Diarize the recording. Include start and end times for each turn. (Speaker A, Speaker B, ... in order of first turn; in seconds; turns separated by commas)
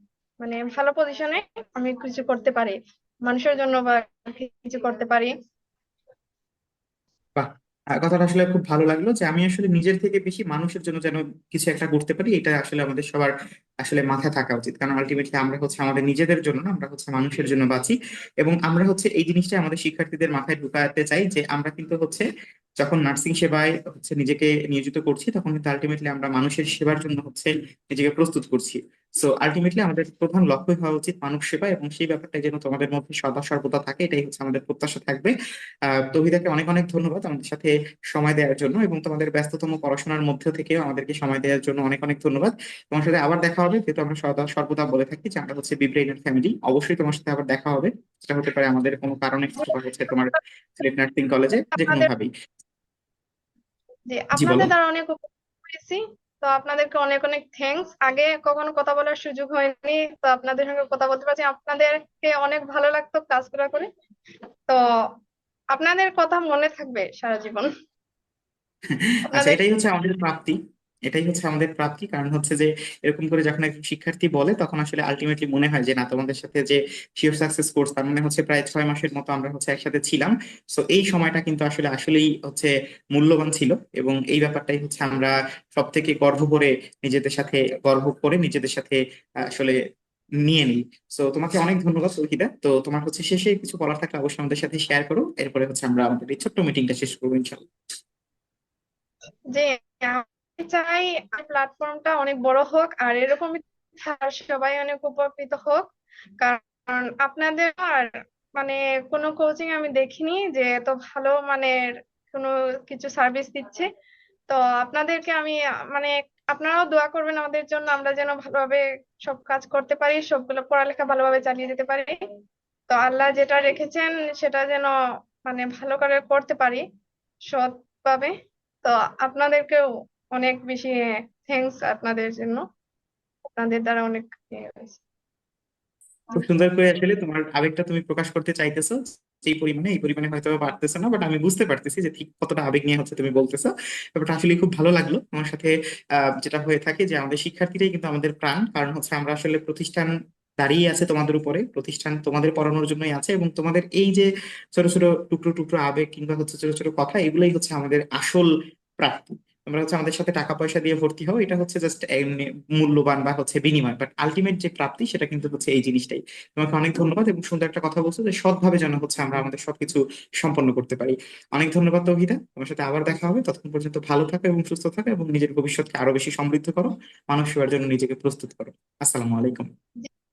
Speaker A: 0.4-5.3, Speaker B: 7.4-13.3, Speaker B: 13.8-22.3, Speaker B: 22.8-35.3, Speaker B: 35.9-52.3, Speaker A: 51.8-52.1, Speaker A: 54.1-63.9, Speaker B: 54.4-54.7, Speaker A: 65.7-67.7, Speaker B: 68.9-70.6, Speaker A: 69.3-69.6, Speaker B: 71.1-89.0, Speaker B: 89.5-89.8, Speaker B: 90.5-97.6, Speaker A: 99.5-105.9, Speaker A: 106.4-111.8, Speaker A: 112.3-113.9, Speaker A: 114.5-122.2, Speaker A: 122.9-124.9, Speaker A: 125.4-126.8, Speaker A: 127.5-129.8, Speaker A: 130.4-132.6, Speaker A: 133.6-135.0, Speaker B: 136.3-179.7